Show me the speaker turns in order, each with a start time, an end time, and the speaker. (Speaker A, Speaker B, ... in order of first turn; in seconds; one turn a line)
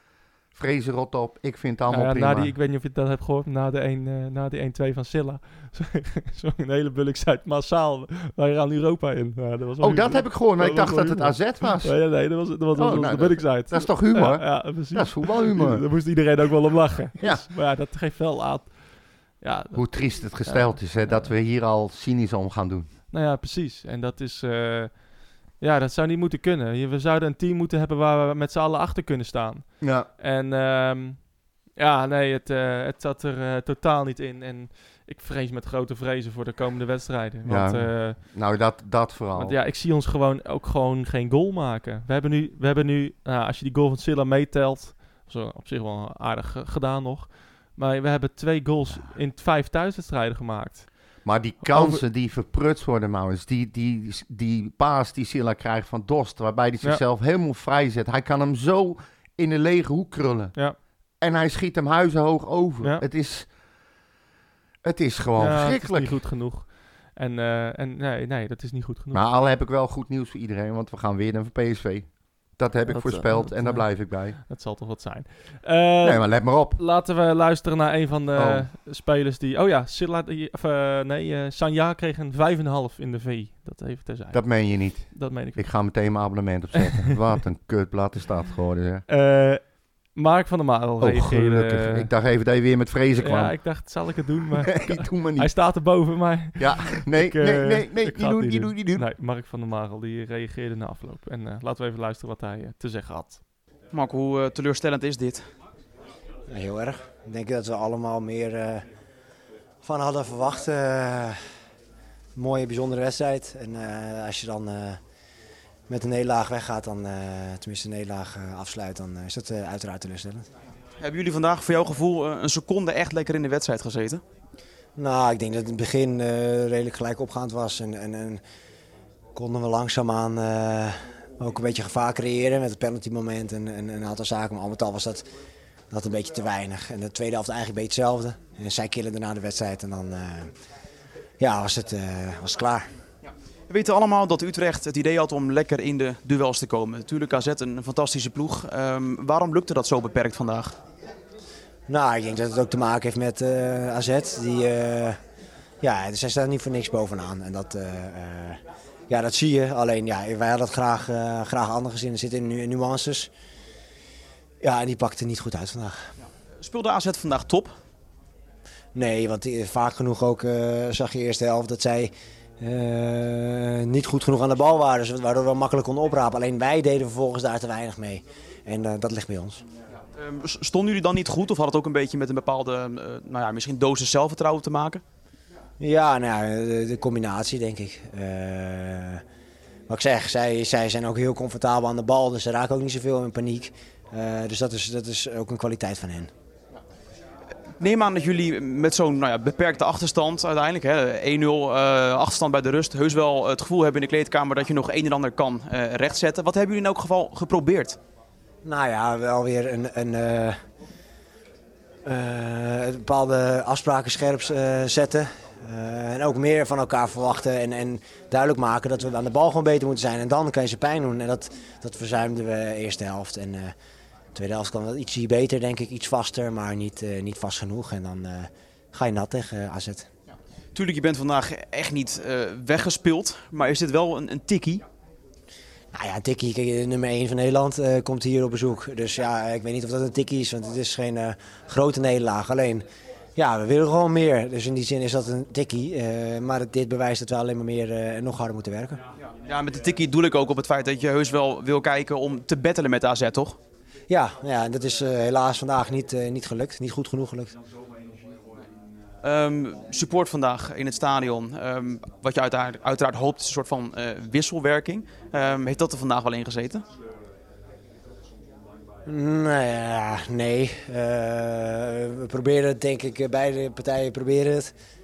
Speaker A: 0.5-2.5
Speaker B: 1.9-21.3
Speaker A: 9.8-12.2
Speaker A: 12.7-15.8
Speaker A: 17.2-17.5
Speaker A: 19.7-22.9
Speaker B: 23.1-38.2
Speaker A: 29.8-30.1
Speaker A: 37.5-39.5
Speaker B: 39.4-52.0
Speaker A: 51.2-60.5
Speaker A: 61.2-63.5
Speaker A: 64.8-66.2
Speaker B: 65.4-69.2
Speaker A: 69.1-74.4
Speaker B: 72.9-86.2
Speaker A: 76.0-76.8
Speaker A: 78.3-78.7
Speaker A: 84.3-89.0
Speaker B: 89.1-92.1
Speaker A: 91.0-93.6
Speaker B: 93.2-103.4
Speaker A: 94.6-95.6
Speaker A: 96.6-99.1
Speaker C: 103.9-105.5
Speaker D: 106.5-108.8
Speaker D: 109.8-111.4
Speaker D: 112.3-115.0
Speaker D: 115.9-120.5
Speaker C: 121.0-124.2
Speaker D: 125.0-128.4
Speaker D: 129.3-135.3
Speaker D: 135.9-140.5
Speaker D: 141.4-142.9
Speaker C: 143.7-150.8
Speaker D: 151.9-155.2
Speaker D: 155.8-163.3
Speaker D: 164.6-165.9
Speaker C: 166.6-167.7
Speaker D: 168.9-179.6
Speaker C: 180.1-185.0
Speaker D: 185.8-189.2
Speaker D: 189.9-196.3
Speaker C: 197.8-208.0
Speaker D: 208.6-210.6
Speaker D: 212.1-223.7
Speaker D: 224.3-230.1
Speaker C: 230.7-234.8
Speaker D: 235.9-242.8
Speaker D: 243.3-249.0
Speaker C: 249.4-253.6
Speaker D: 254.1-257.6
Speaker C: 259.2-266.8
Speaker D: 269.1-274.7